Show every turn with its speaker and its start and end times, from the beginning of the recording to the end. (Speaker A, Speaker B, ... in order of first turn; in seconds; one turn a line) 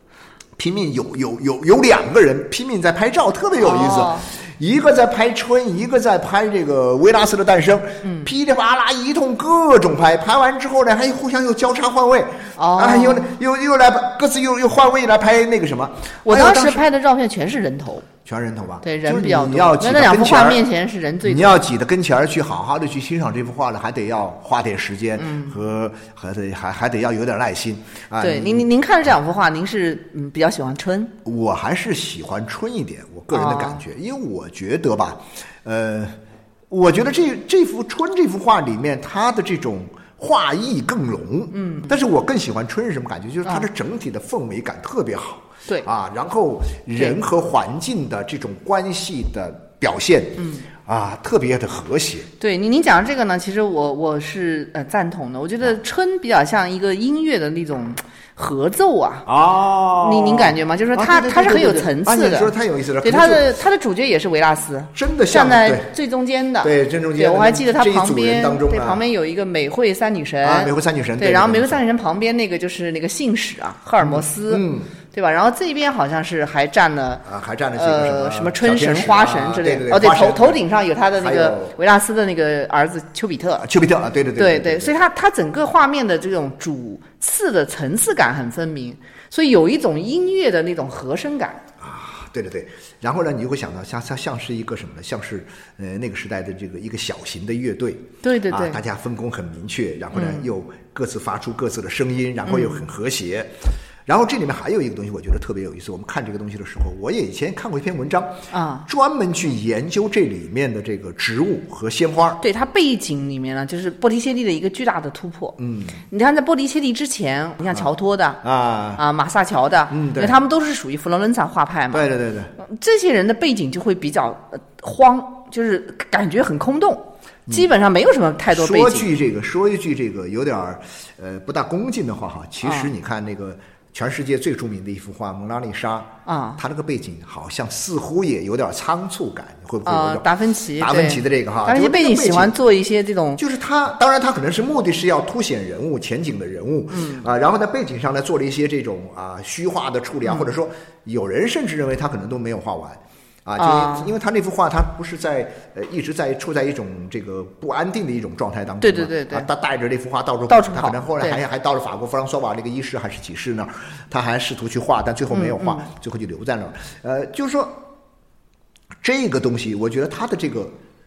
Speaker A: 0.6-16.8
Speaker B: 3.6-4.3
Speaker B: 8.0-8.3
Speaker B: 12.6-13.3
Speaker B: 16.2-18.1
Speaker A: 18.2-20.6
Speaker B: 18.8-21.6
Speaker A: 21.2-28.7
Speaker B: 25.2-25.6
Speaker B: 28.2-31.1
Speaker A: 31.2-36.1
Speaker B: 33.3-33.8
Speaker A: 36.7-52.3
Speaker B: 41.5-42.0
Speaker B: 50.4-50.7
Speaker B: 52.4-59.3
Speaker A: 59.2-63.6
Speaker B: 60.0-77.2
Speaker A: 64.9-65.9
Speaker A: 66.6-69.0
Speaker A: 70.4-71.8
Speaker A: 74.0-74.9
Speaker A: 77.2-80.6
Speaker B: 77.7-83.7
Speaker A: 81.1-81.7
Speaker A: 83.6-85.0
Speaker B: 84.4-91.6
Speaker A: 91.8-112.4
Speaker B: 98.2-98.8
Speaker B: 100.1-100.5
Speaker B: 102.5-102.8
Speaker B: 108.5-108.9
Speaker B: 112.4-115.6
Speaker A: 115.6-116.0
Speaker B: 116.1-118.4
Speaker A: 118.4-119.0
Speaker B: 119.0-122.1
Speaker A: 119.9-120.4
Speaker A: 121.9-122.5
Speaker B: 122.6-129.1
Speaker A: 128.5-142.5
Speaker B: 132.6-132.9
Speaker B: 136.2-136.6
Speaker B: 139.8-143.4
Speaker A: 143.4-167.8
Speaker B: 146.9-147.2
Speaker B: 150.2-150.5
Speaker B: 153.6-154.1
Speaker B: 158.8-159.5
Speaker B: 160.5-161.4
Speaker B: 165.3-165.9
Speaker A: 169.0-170.7